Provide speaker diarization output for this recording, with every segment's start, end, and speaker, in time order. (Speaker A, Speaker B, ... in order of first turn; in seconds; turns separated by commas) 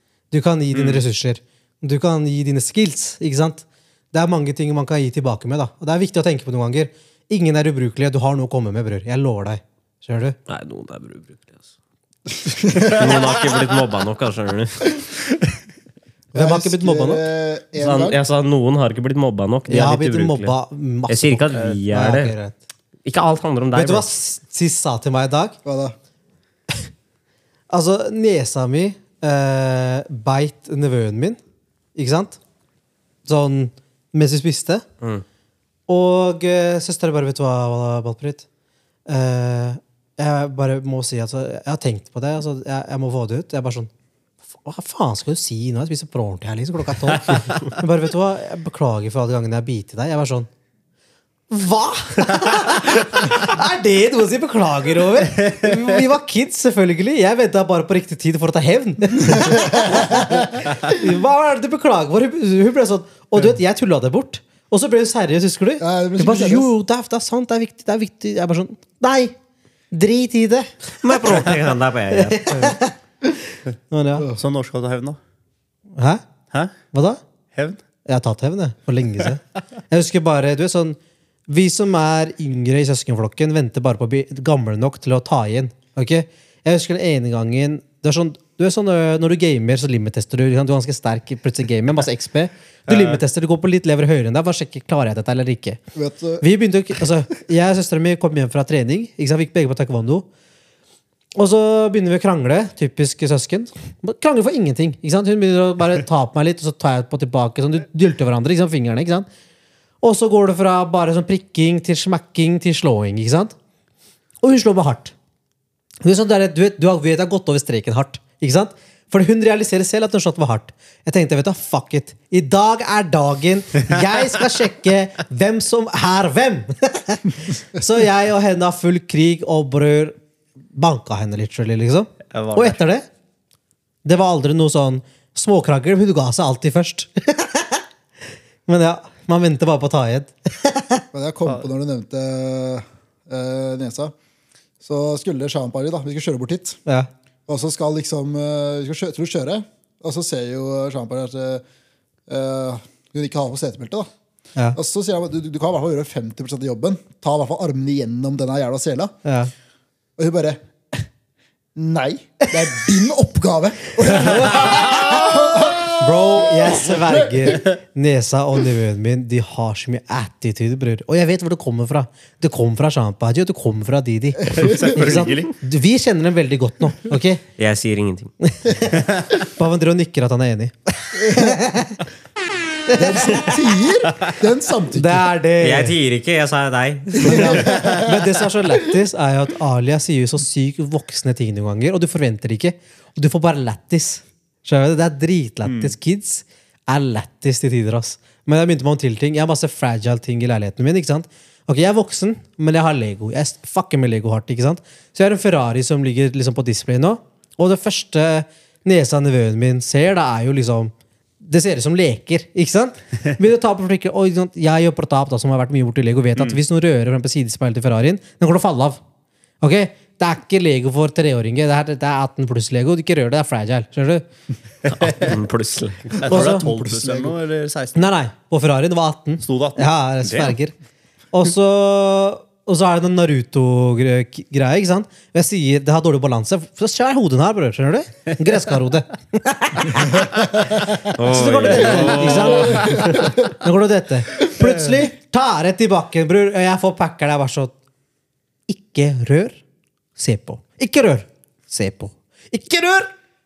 Speaker A: 0.3-10.4, Speaker B: 0.7-1.0, Speaker C: 10.5-11.6, Speaker D: 12.3-13.3, Speaker C: 12.9-15.0, Speaker D: 16.3-18.2, Speaker A: 16.3-17.2, Speaker C: 17.8-20.5, Speaker A: 19.7-22.6, Speaker C: 21.1-22.3, Speaker C: 23.0-24.1, Speaker A: 23.7-25.6, Speaker D: 25.6-25.9, Speaker A: 27.7-31.4, Speaker A: 31.9-32.4, Speaker A: 33.2-34.8, Speaker A: 35.9-38.4, Speaker A: 39.1-43.9, Speaker A: 44.6-50.5, Speaker A: 51.5-69.3, Speaker D: 59.2-60.9, Speaker D: 65.8-66.7, Speaker A: 69.9-71.4, Speaker C: 70.9-72.6, Speaker A: 72.1-72.9, Speaker A: 73.9-74.3, Speaker B: 74.3-75.2, Speaker A: 76.0-76.2, Speaker A: 76.9-77.2, Speaker A: 78.0-95.8, Speaker B: 92.9-93.2, Speaker D: 95.9-96.4, Speaker A: 96.4-100.2, Speaker A: 101.3-109.3, Speaker A: 110.0-113.5, Speaker A: 114.4-115.1, Speaker A: 116.0-130.2, Speaker A: 130.7-133.1, Speaker C: 132.3-132.8, Speaker A: 134.0-137.8, Speaker A: 138.7-141.0, Speaker D: 141.1-144.1, Speaker D: 144.8-146.8, Speaker D: 147.5-151.6, Speaker D: 152.3-154.1, Speaker D: 154.7-159.1, Speaker A: 159.2-159.5, Speaker D: 160.2-161.1, Speaker D: 161.8-167.6, Speaker A: 164.1-177.4, Speaker D: 174.4-175.0, Speaker B: 174.5-175.5, Speaker C: 177.6-178.3, Speaker A: 178.4-182.0, Speaker B: 179.0-179.2, Speaker D: 181.2-181.6, Speaker A: 182.9-183.6, Speaker D: 182.9-185.2, Speaker A: 184.9-185.9, Speaker C: 185.6-187.7, Speaker D: 187.2-188.2, Speaker A: 187.2-219.0, Speaker B: 195.6-195.9, Speaker A: 219.6-224.2, Speaker C: 224.8-226.2, Speaker B: 224.9-225.3, Speaker B: 226.2-228.1, Speaker D: 226.2-227.3, Speaker A: 226.3-226.7, Speaker A: 227.9-230.7, Speaker B: 229.4-230.6, Speaker A: 231.3-247.7, Speaker C: 241.1-243.2, Speaker D: 242.9-243.2, Speaker A: 248.7-249.6, Speaker A: 250.2-253.1